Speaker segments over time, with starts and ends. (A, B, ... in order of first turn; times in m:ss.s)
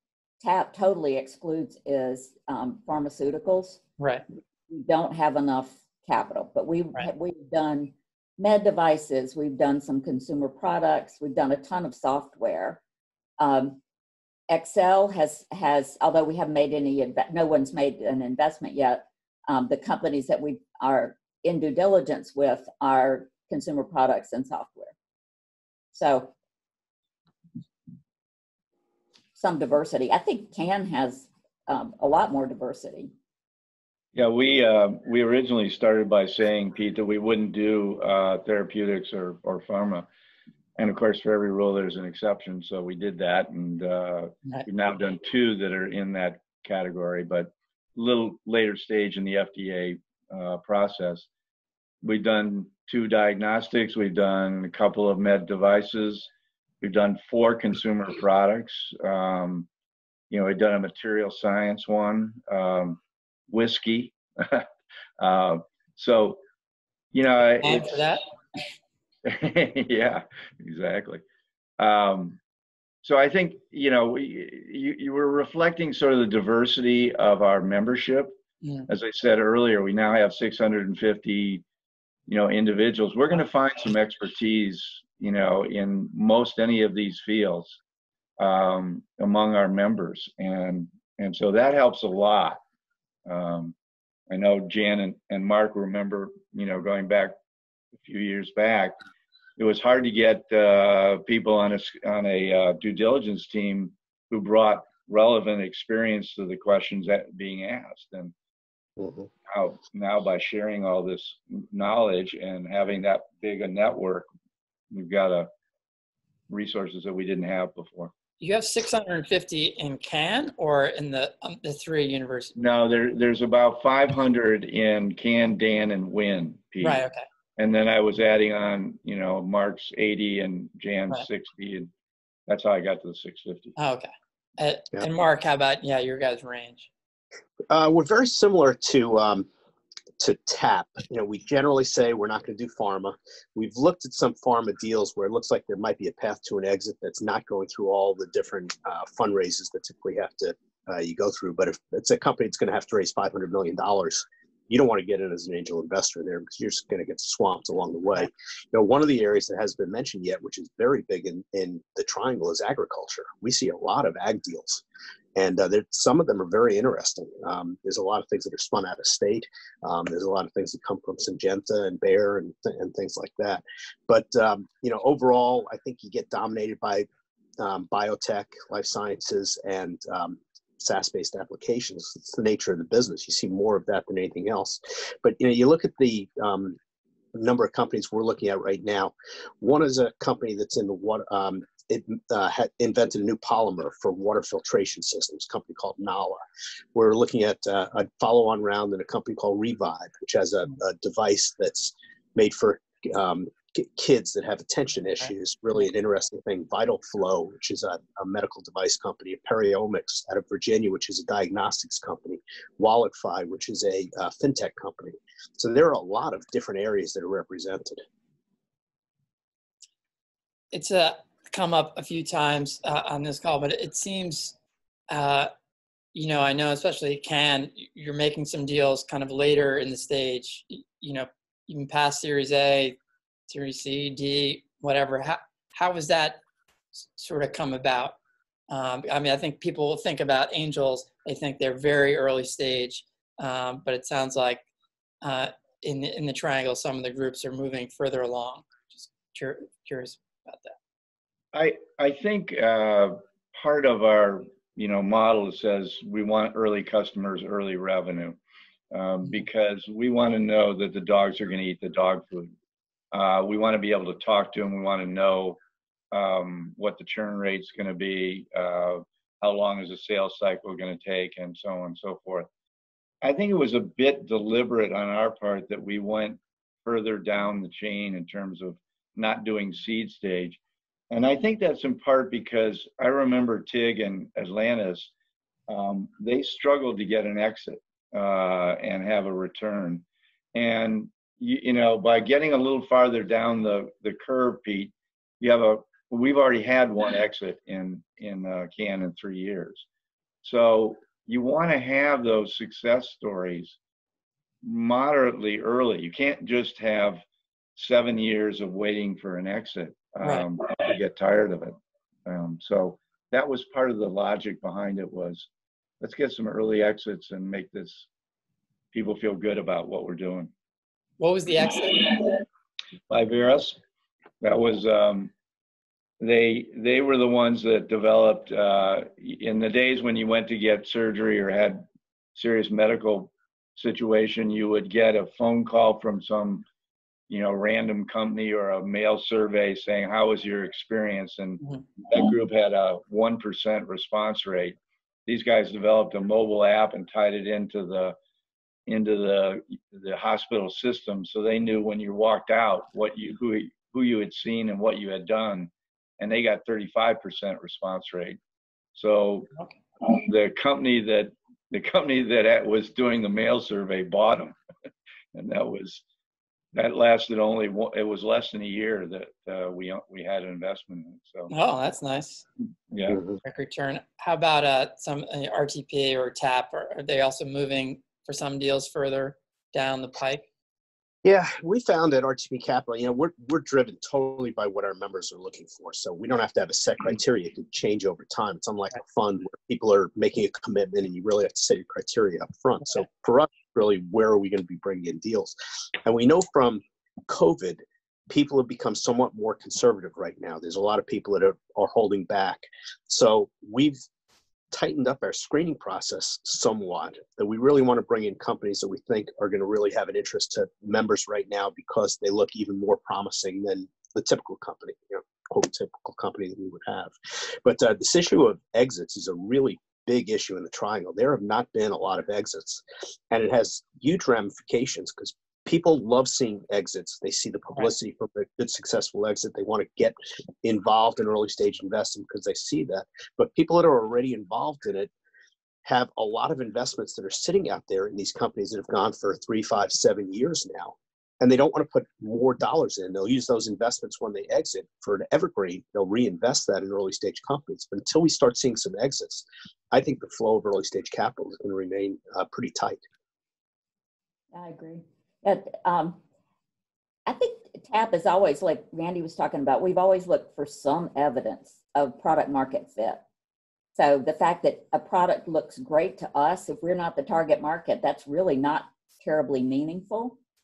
0:00.4-0:03.8 A
0:04.0-0:04.2 B
0:04.7-0:12.8 A
0:13.4-0:13.8 A
0:14.5-0:25.0 A
0:25.9-0:26.3 A
0:29.4-0:33.1 A
0:34.2-0:40.1 C
0:40.8-0:51.3 C
0:52.0-0:56.3 C
0:56.8-0:59.7 C
1:00.3-1:04.7 C
1:05.2-1:06.4 C
1:07.1-1:08.2 C
1:07.6-1:08.2 B
1:09.2-1:11.2 C
1:11.8-1:12.4 C
1:13.0-1:18.4 C
1:18.9-1:21.6 C
1:22.3-1:27.8 C
1:28.4-1:32.6 C
1:33.3-1:33.8 C
1:34.3-1:37.4 C
1:38.0-1:39.0 C
1:39.6-1:48.3 C
1:49.0-1:49.3 D
1:49.5-1:54.3 C
1:54.9-1:55.5 C
1:56.5-1:58.1 C
1:58.4-2:02.5 B
2:02.6-2:07.0 C
2:06.8-2:07.3 B
2:07.6-2:11.9 C
2:12.5-2:13.8 C
2:13.8-2:16.9 B
2:17.7-2:19.5 D
2:20.2-2:44.8 D
2:45.4-2:57.1 D
2:57.6-3:06.8 D
3:07.3-3:16.4 D
3:16.9-3:38.0 D
3:40.7-3:44.6 B
3:45.1-3:45.5 B
3:46.1-3:53.0 B
3:53.5-3:56.4 B
3:57.2-3:58.2 B
3:58.7-4:04.6 B
4:05.2-4:10.8 B
4:11.5-4:18.4 C
4:18.9-4:22.5 C
4:23.1-4:25.6 C
4:26.1-4:32.5 C
4:33.2-4:40.6 C
4:41.1-4:45.1 C
4:45.7-4:59.9 C
5:00.4-5:03.8 C
5:04.6-5:07.2 C
5:07.8-5:11.8 C
5:12.3-5:15.5 C
5:16.0-5:18.1 C
5:18.9-5:20.5 C
5:21.2-5:22.4 B
5:23.1-5:23.8 C
5:24.4-5:25.3 C
5:26.2-5:31.8 C
5:32.4-5:36.6 C
5:37.3-5:48.2 C
5:48.9-5:58.4 C
5:59.0-6:04.6 C
6:05.3-6:06.0 C
6:06.7-6:11.5 C
6:11.5-6:12.5 B
6:12.9-6:13.2 C
6:13.4-6:20.4 B
6:21.2-6:44.0 D
6:44.7-7:15.1 D
7:15.8-7:33.0 D
7:34.5-7:36.2 A
7:37.3-7:43.2 A
7:44.0-7:50.4 A